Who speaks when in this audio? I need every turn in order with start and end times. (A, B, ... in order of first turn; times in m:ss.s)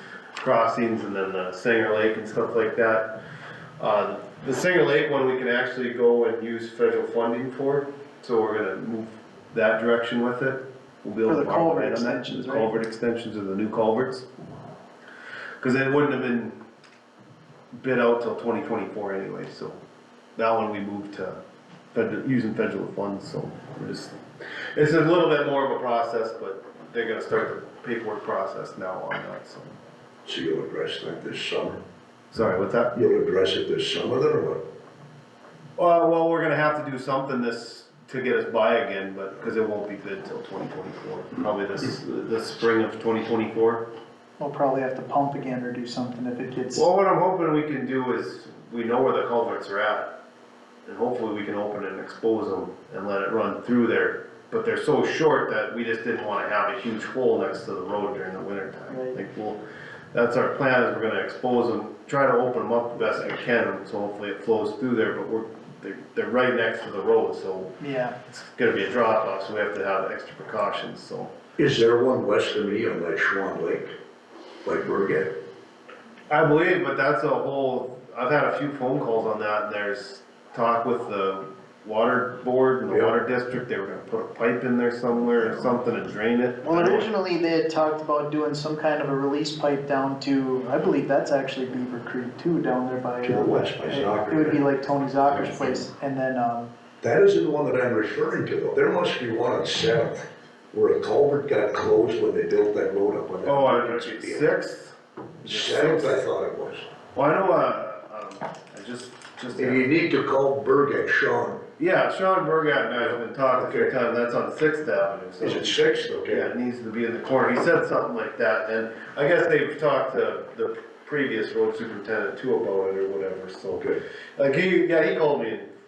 0:00.4-0:03.1 A
0:03.8-0:14.3 A
0:11.2-0:12.7 B
0:15.6-0:16.6 A
0:17.8-0:19.8 A
0:20.4-0:21.4 A
0:21.9-0:24.2 A
0:24.7-0:29.7 A
0:30.2-0:31.8 C
0:32.3-0:32.9 A
0:32.9-0:34.6 C
0:35.8-0:43.8 A
0:44.4-0:46.8 B
0:46.7-0:50.1 A
0:50.8-0:59.6 A
0:58.9-0:59.2 B
1:00.1-1:07.8 A
1:07.8-1:08.1 B
1:08.3-1:11.3 A
1:11.6-1:13.9 C
1:14.6-1:15.3 C
1:16.3-1:27.1 A
1:26.6-1:36.7 B
1:33.2-1:34.6 C
1:35.3-1:35.8 C
1:37.0-1:44.5 C
1:43.4-1:46.2 A
1:45.4-1:46.9 C
1:47.1-1:49.8 A
1:49.5-1:51.6 C
1:51.8-2:05.7 A
1:53.0-1:54.0 C
1:55.4-1:56.5 C
2:03.7-2:04.0 C